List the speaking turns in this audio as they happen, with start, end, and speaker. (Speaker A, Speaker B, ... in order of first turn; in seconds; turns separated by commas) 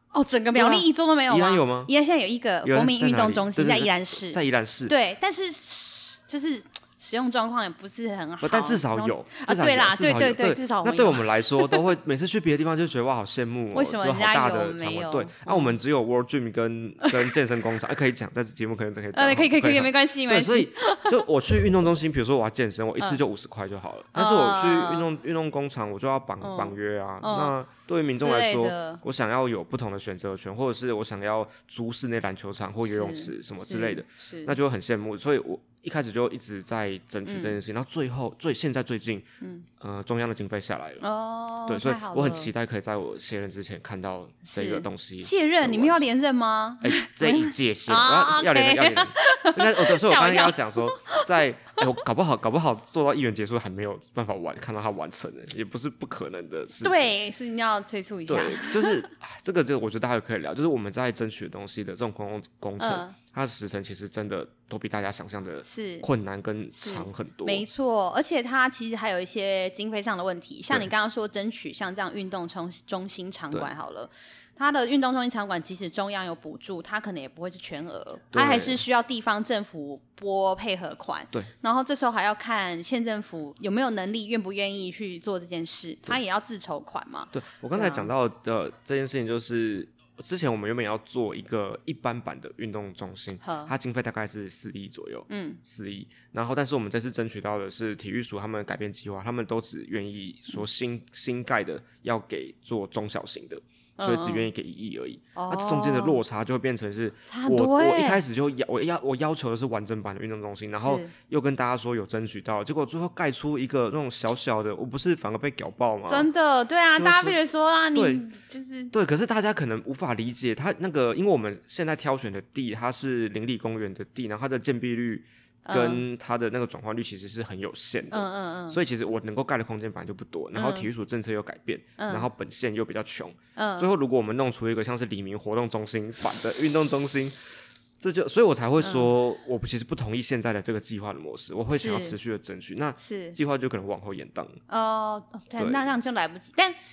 Speaker A: 0.1-11.8, Speaker B: 0.5-1.9, Speaker B: 2.6-4.9, Speaker B: 8.4-39.2, Speaker A: 13.7-15.8, Speaker A: 17.0-17.3, Speaker A: 19.1-21.6, Speaker A: 24.1-25.1, Speaker A: 26.4-27.5, Speaker A: 28.2-29.0, Speaker A: 32.9-34.5, Speaker A: 37.2-37.6, Speaker A: 39.4-39.7, Speaker B: 39.8-41.0, Speaker A: 41.0-42.5, Speaker B: 41.7-46.0, Speaker A: 44.5-51.3, Speaker B: 46.8-57.1, Speaker A: 56.8-59.1, Speaker B: 58.3-67.6, Speaker A: 62.8-63.1, Speaker A: 65.6-66.0, Speaker A: 66.7-88.1, Speaker B: 78.3-78.8, Speaker B: 87.3-116.3, Speaker A: 93.4-93.7, Speaker A: 95.3-95.6, Speaker A: 104.0-104.5, Speaker A: 105.3-106.2, Speaker A: 107.3-108.2, Speaker A: 110.8-111.1, Speaker A: 116.1-118.9, Speaker B: 116.9-117.4, Speaker B: 117.9-118.2, Speaker B: 118.9-137.4, Speaker A: 125.6-126.0, Speaker A: 128.1-128.8, Speaker A: 130.5-130.9, Speaker A: 132.0-132.3, Speaker A: 133.6-133.9, Speaker B: 138.0-144.6, Speaker A: 138.8-139.1, Speaker A: 141.7-142.2, Speaker A: 143.0-143.4, Speaker A: 144.7-146.7, Speaker B: 145.6-145.9